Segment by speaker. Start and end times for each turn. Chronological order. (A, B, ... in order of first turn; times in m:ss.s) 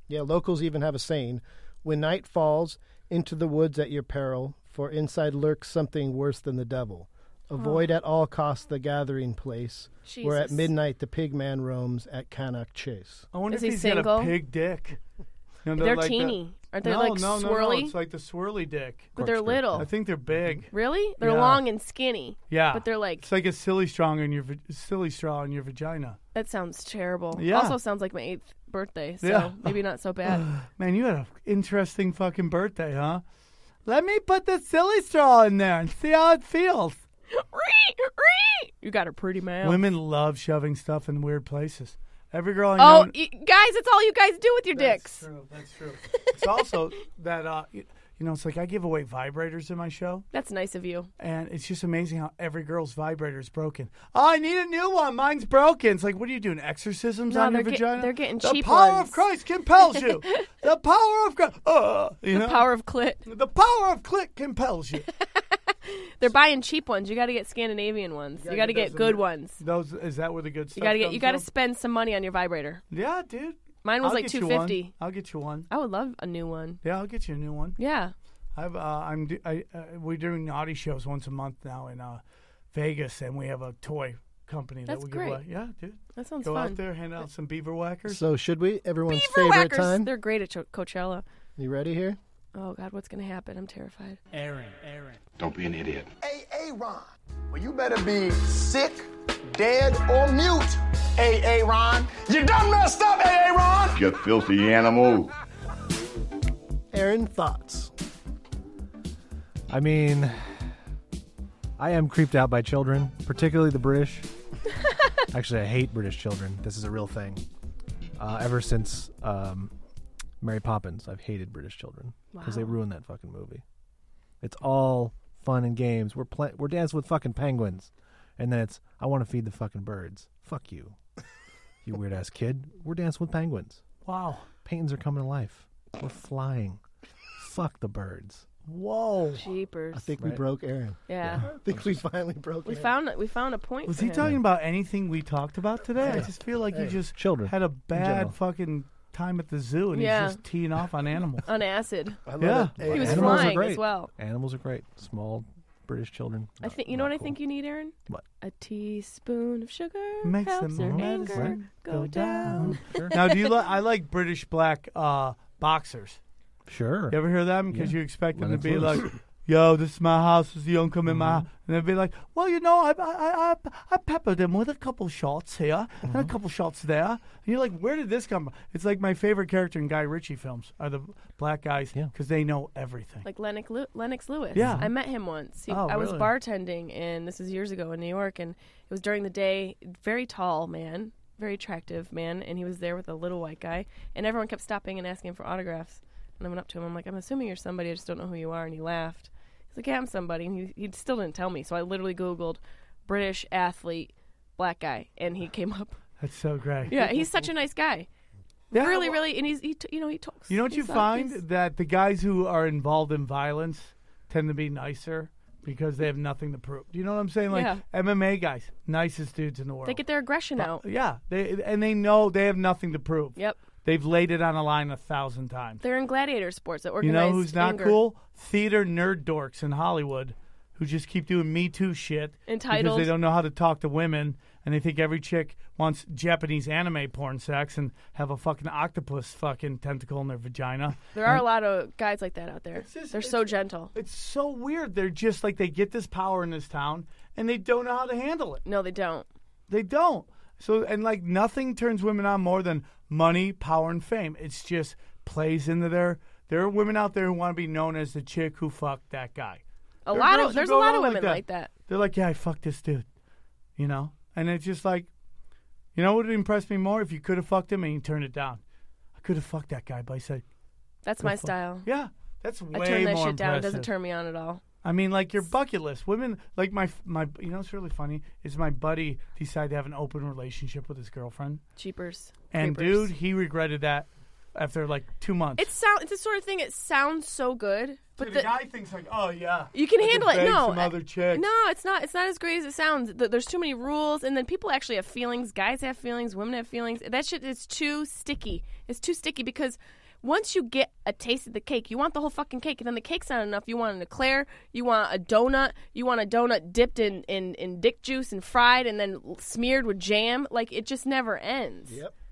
0:00.1-0:13.3 A
0:07.6-0:07.9 B
0:10.0-0:10.7 B
0:13.3-0:15.0 C
0:13.5-0:14.4 B
0:15.6-0:19.2 C
0:15.8-0:17.9 B
0:19.2-0:19.9 D
0:19.2-0:19.9 B
0:19.8-0:20.7 C
0:20.7-0:23.2 B
0:21.2-0:21.6 C
0:22.5-0:26.2 C
0:26.3-0:30.5 B
0:27.3-0:27.8 C
0:29.2-0:33.2 C
0:33.9-0:37.0 C
0:37.3-0:39.8 B
0:39.6-0:43.1 C
0:42.8-0:45.2 B
0:44.7-0:50.3 C
0:50.3-0:51.1 B
0:51.2-1:02.7 C
0:57.3-0:59.2 B
0:59.9-1:00.4 B
1:02.3-1:03.2 B
1:03.3-1:05.1 C
1:05.2-1:09.6 B
1:08.4-1:11.5 C
1:10.8-1:12.8 B
1:12.9-1:15.7 C
1:13.8-1:15.0 B
1:15.7-1:16.8 B
1:16.8-1:17.8 C
1:17.8-1:18.1 B
1:18.6-1:22.2 C
1:22.7-1:28.2 C
1:24.9-1:25.4 B
1:26.2-1:26.8 B
1:28.1-1:30.1 A
1:29.1-1:31.2 B
1:31.6-1:32.2 A
1:32.6-1:34.2 B
1:34.3-1:35.2 C
1:35.4-1:36.1 E
1:36.2-1:44.0 F
1:44.0-1:45.3 E
1:46.9-1:47.9 A
1:49.7-1:50.5 D
1:51.8-1:54.3 D
1:55.3-1:57.4 D
1:58.2-1:59.7 D
2:00.4-2:03.6 D
2:02.3-2:02.8 B
2:04.4-2:11.0 D
2:11.8-2:13.8 D
2:14.0-2:14.5 C
2:14.6-2:16.8 D
2:17.4-2:18.4 D
2:18.7-2:19.4 C
2:19.4-2:20.1 B
2:19.9-2:22.9 A
2:21.1-2:21.5 B
2:21.2-2:21.5 D
2:22.7-2:24.2 B
2:23.9-2:31.4 C
2:26.0-2:27.0 A
2:27.2-2:28.3 D
2:28.0-2:28.3 A
2:29.9-2:30.4 B
2:31.5-2:32.2 B
2:32.3-2:33.6 A
2:32.4-2:32.9 C
2:32.8-2:37.4 D
2:32.8-2:34.1 B
2:36.6-2:43.4 B
2:40.2-2:46.2 C
2:40.8-2:41.6 D
2:42.4-2:43.2 D
2:46.7-2:49.2 D
2:47.1-3:03.3 C
2:51.1-2:51.5 D
3:03.2-3:26.0 B
3:04.6-3:05.0 C
3:04.6-3:04.9 D
3:05.7-3:06.3 C
3:26.2-3:27.3 C
3:26.9-3:28.1 B
3:28.7-3:29.2 C
3:28.8-3:31.4 B
3:30.5-3:40.0 C
3:37.5-3:37.8 B
3:39.8-3:40.8 B
3:40.6-3:45.8 C
3:45.8-3:48.0 B
3:47.0-4:01.0 C
3:52.5-3:53.1 B
4:01.1-4:03.9 B
4:02.8-4:08.6 C
4:08.6-4:09.3 B
4:09.7-4:23.1 C
4:20.1-4:21.7 B
4:23.8-4:25.1 C
4:26.0-4:28.6 C
4:29.2-4:30.4 C
4:31.0-4:31.9 B
4:31.2-4:33.9 C
4:32.7-4:34.6 B
4:34.8-4:41.6 C
4:41.8-4:43.1 B
4:42.5-4:45.7 C
4:45.6-4:48.5 B
4:48.2-4:51.5 C
4:49.7-5:12.0 B
5:11.9-5:12.1 A